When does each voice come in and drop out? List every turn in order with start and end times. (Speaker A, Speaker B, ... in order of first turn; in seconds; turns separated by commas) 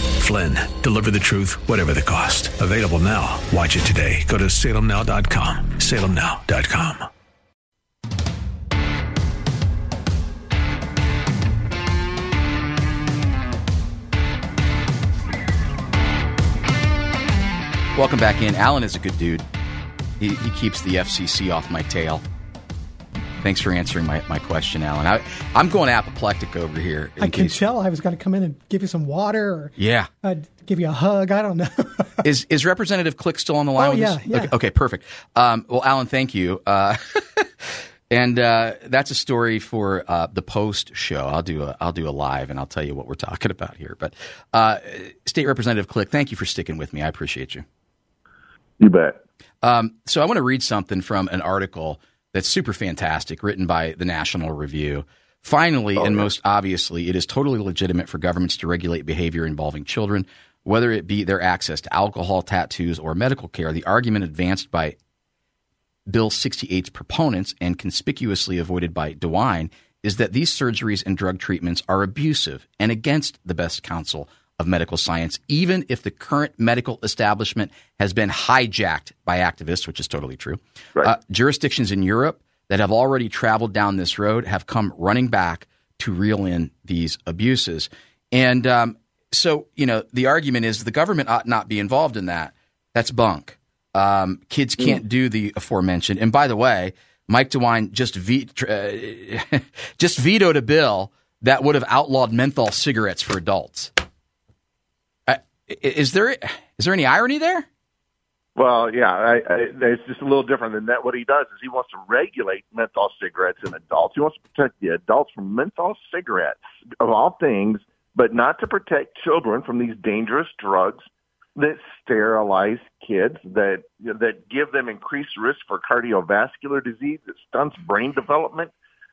Speaker A: 0.2-7.1, Speaker B: 17.9-19.4, Speaker B: 20.2-22.2, Speaker B: 23.4-27.6, Speaker C: 27.2-32.2, Speaker B: 29.8-30.1, Speaker B: 32.2-47.6, Speaker C: 33.8-34.5, Speaker D: 48.8-49.2, Speaker B: 49.6-65.0, Speaker D: 56.0-56.3, Speaker B: 66.1-103.9, Speaker B: 105.3-107.7, Speaker D: 108.5-128.7